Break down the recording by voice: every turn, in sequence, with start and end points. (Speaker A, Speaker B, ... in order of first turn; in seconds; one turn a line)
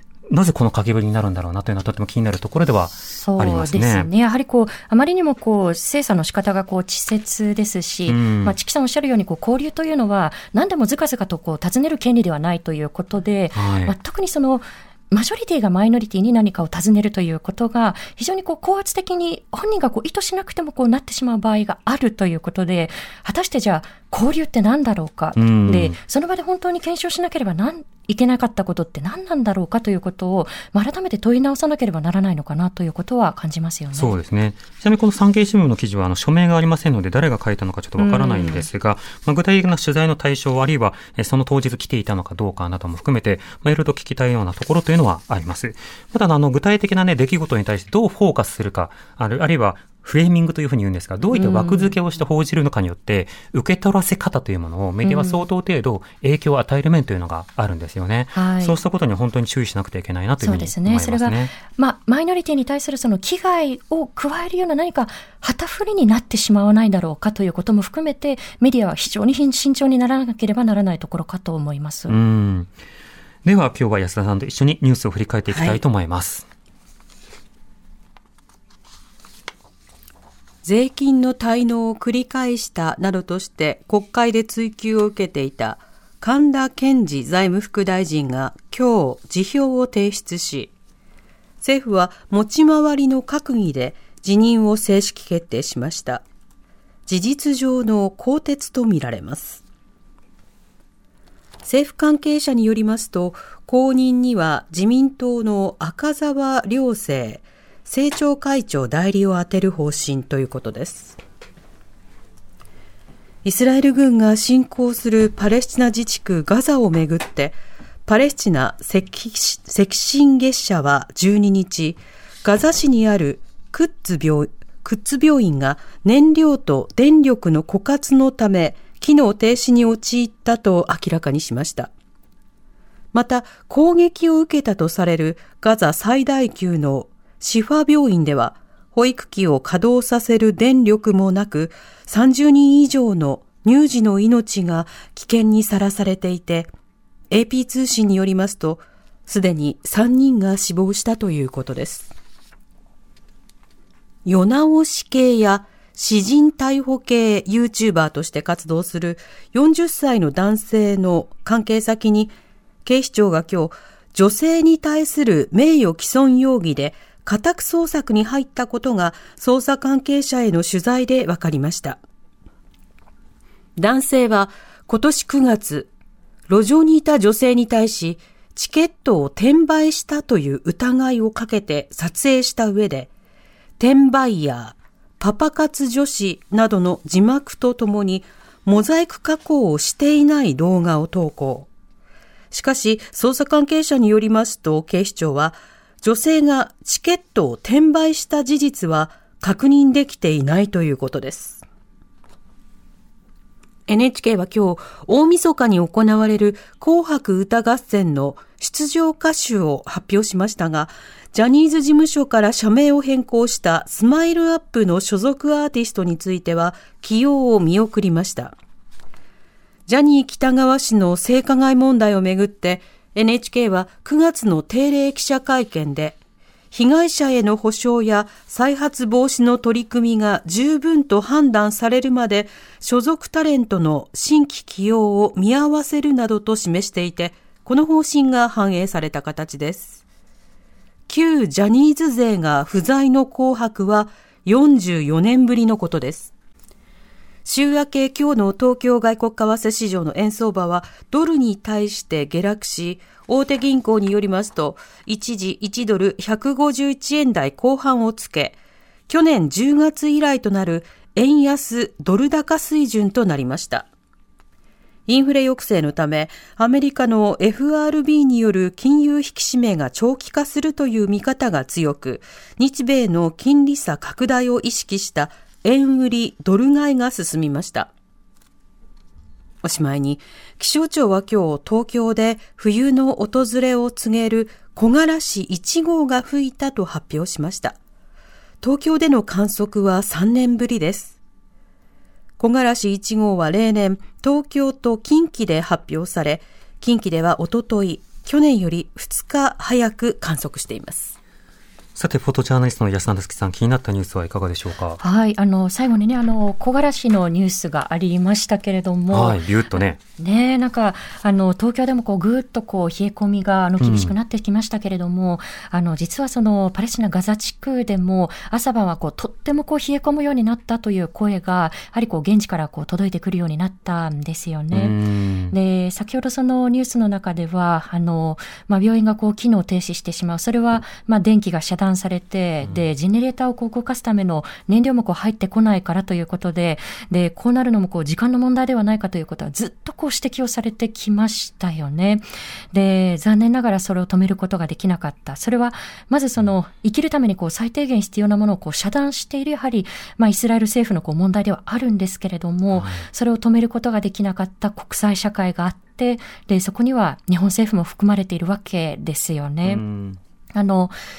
Speaker A: 0.3-4.1
Speaker B: 3.1-34.2
Speaker A: 8.1-8.6
Speaker A: 13.6-13.9
Speaker A: 25.4-26.0
Speaker A: 33.9-61.5
Speaker B: 38.0-38.7
Speaker B: 51.3-52.0
Speaker B: 55.0-55.5
Speaker B: 58.3-58.8
Speaker B: 60.4-72.2
Speaker A: 72.1-72.7
Speaker A: 73.4-76.5
Speaker C: 75.5-75.8
Speaker C: 80.6-90.7
Speaker C: 91.6-96.2
Speaker C: 97.1-99.6
Speaker C: 101.6-111.2
Speaker C: 113.4-131.9
Speaker C: 133.1-146.7
Speaker C: 147.3-152.1
Speaker C: 154.2-162.3
Speaker C: 162.8-172.0
Speaker C: 173.8-175.9
Speaker C: 176.5-183.1
Speaker C: 183.8-191.7
Speaker C: 192.5-201.6
Speaker C: 203.9-218.6
Speaker C: 219.9-226.2
Speaker C: 226.7-240.0
Speaker C: 241.1-246.3
Speaker C: 247.4-258.6
Speaker C: 259.1-263.9
Speaker C: 265.1-277.9
Speaker C: 279.6-287.8
Speaker C: 288.6-291.2
Speaker C: 292.4-301.2
Speaker A: 301.9-305.0
Speaker B: 305.0-309.4
Speaker A: 309.1-310.0
Speaker B: 310.2-325.0
Speaker A: 313.8-314.1
Speaker A: 324.7-325.6
Speaker B: 325.5-359.8
Speaker A: 352.7-353.1
Speaker A: 359.6-360.2
Speaker B: 360.6-361.0